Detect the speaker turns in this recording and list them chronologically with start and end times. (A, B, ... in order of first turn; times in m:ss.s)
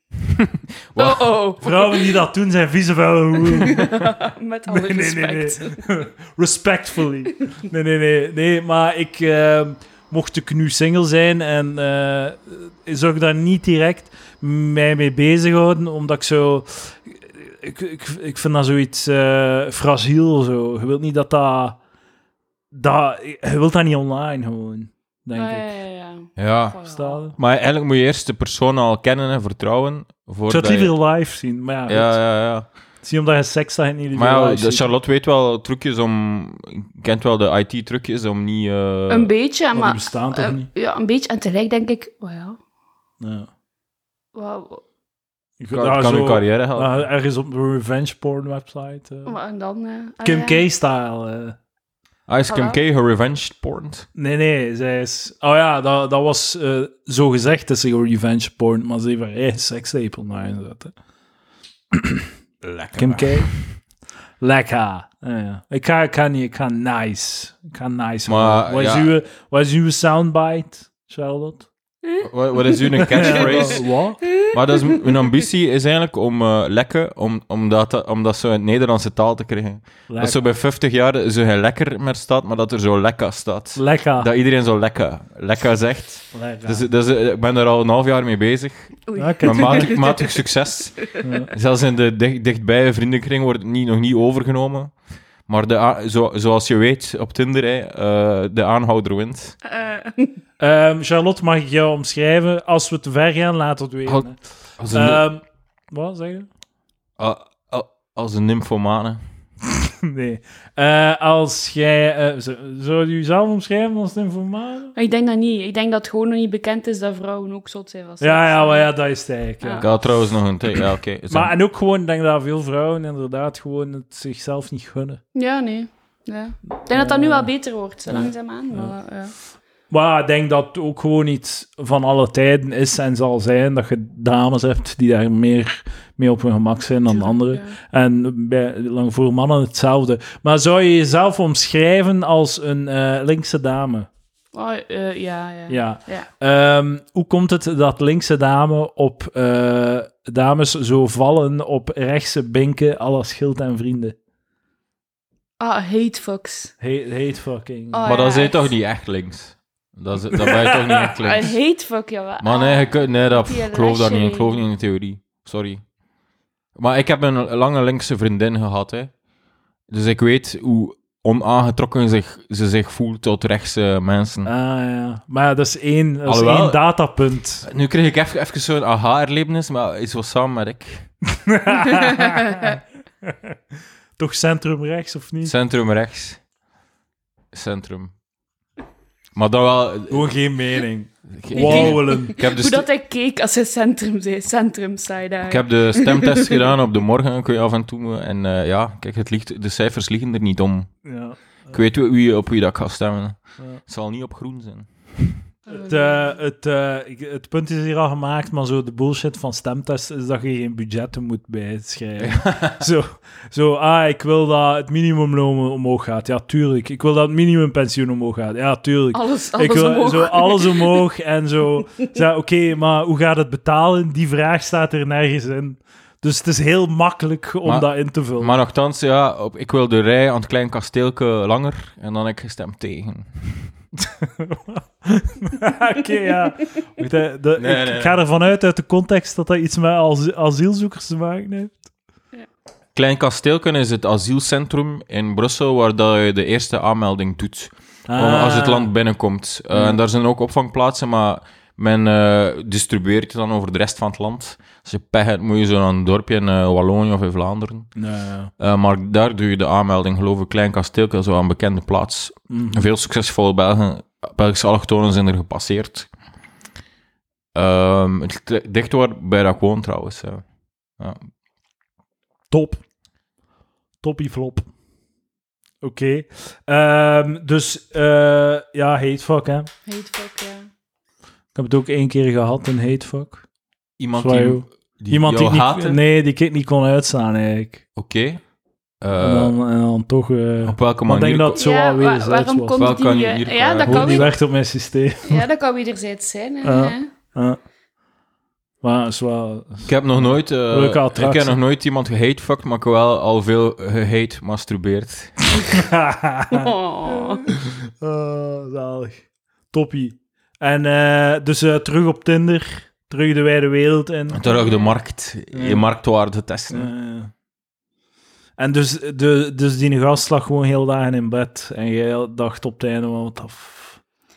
0:00.3-0:01.3 A
0:01.0-0:02.2 B
0:01.6-0:03.8 C
0:03.6-0:05.9 B
0:04.7-0:21.8 C
0:22.7-0:25.7 C
0:25.4-0:27.2 B
0:26.4-0:26.8 A
0:26.9-0:27.4 C
0:27.4-0:30.9 A
0:30.5-0:32.2 C
0:31.9-0:32.7 A
0:33.0-0:34.9 C
0:34.2-0:39.3 A
0:39.1-0:42.6 B
0:39.7-0:40.7 C
0:43.2-0:43.5 C
0:44.3-0:44.8 B
0:45.6-0:49.4 C
0:45.7-0:47.1 A
0:49.3-0:50.7 B
0:50.2-0:51.6 C
0:52.3-0:54.1 A
0:52.5-0:52.8 B
0:54.2-1:01.0 C
1:01.9-1:02.3 C
1:02.6-1:03.5 A
1:02.9-1:03.5 C
1:04.4-1:11.7 C
1:08.3-1:09.1 A
1:12.0-1:13.8 B
1:12.2-1:13.8 A
1:13.1-1:14.2 C
1:14.3-1:15.1 B
1:14.4-1:34.9 A
1:20.1-1:20.4 C
1:23.8-1:24.3 C
1:26.3-1:26.9 C
1:29.1-1:31.2 B
1:29.2-1:29.9 C
1:31.2-1:31.5 C
1:35.5-1:39.6 A
1:39.6-1:40.4 B
1:40.6-1:44.4 C
1:44.8-1:45.2 A
1:44.9-1:46.5 C
1:47.2-1:49.2 A
1:49.8-1:54.9 C
1:55.0-1:58.9 B
1:58.2-2:00.0 C
1:59.6-1:59.9 B
1:59.8-2:01.5 A
2:01.3-2:05.2 C
2:05.4-2:09.3 B
2:06.9-2:07.5 C
2:08.1-2:08.9 C
2:09.9-2:24.1 C
2:17.1-2:17.8 B
2:24.5-2:26.3 B
2:25.7-2:34.2 C
2:35.6-2:36.7 B
2:36.8-2:38.1 C
2:37.9-2:38.7 B
2:38.0-2:41.5 A
2:40.4-2:41.1 C
2:41.2-2:44.6 B
2:42.4-2:45.8 A
2:46.8-2:49.1 A
2:49.9-2:54.5 A
2:54.4-2:57.7 C
2:56.3-2:56.8 A
2:57.6-3:01.1 A
3:01.4-3:03.5 C
3:04.2-3:05.6 C
3:05.4-3:06.4 A
3:07.5-3:08.1 A
3:09.4-3:10.3 A
3:10.1-3:12.4 C
3:11.3-3:12.9 A
3:11.6-3:16.7 B
3:15.5-3:21.0 A
3:21.0-3:21.8 C
3:21.7-3:25.4 A
3:25.7-3:26.3 B
3:25.7-3:48.6 C
3:32.2-3:32.8 A
3:39.1-3:41.0 B
3:47.6-3:53.7 A
3:54.3-4:01.9 C
3:57.6-3:58.2 A
4:03.0-4:17.9 A
4:08.1-4:08.9 C
4:09.7-4:10.0 C
4:18.0-4:18.5 C
4:18.6-4:26.1 A
4:22.5-4:22.9 C
4:27.5-4:30.4 A
4:31.0-4:31.2 A
4:32.5-4:32.8 C
4:34.0-4:34.7 C
4:35.8-4:39.7 C
4:39.9-4:40.7 B
4:41.6-4:43.4 C
4:44.0-4:46.0 A
4:44.1-4:47.8 C
4:48.0-4:48.4 A
4:49.0-4:49.5 A
4:49.2-4:52.8 C
4:50.6-4:51.6 A
4:51.6-4:54.3 B
4:52.7-4:54.3 A
4:53.8-4:55.4 C
4:55.2-4:57.1 B
4:56.6-4:57.6 C
4:58.8-5:01.6 C
4:59.8-5:05.5 A
5:05.7-5:14.4 C
5:06.5-5:07.4 B
5:14.3-5:16.9 A
5:14.4-5:14.9 B
5:15.5-5:15.9 C
5:16.7-5:17.3 C
5:18.6-5:24.0 C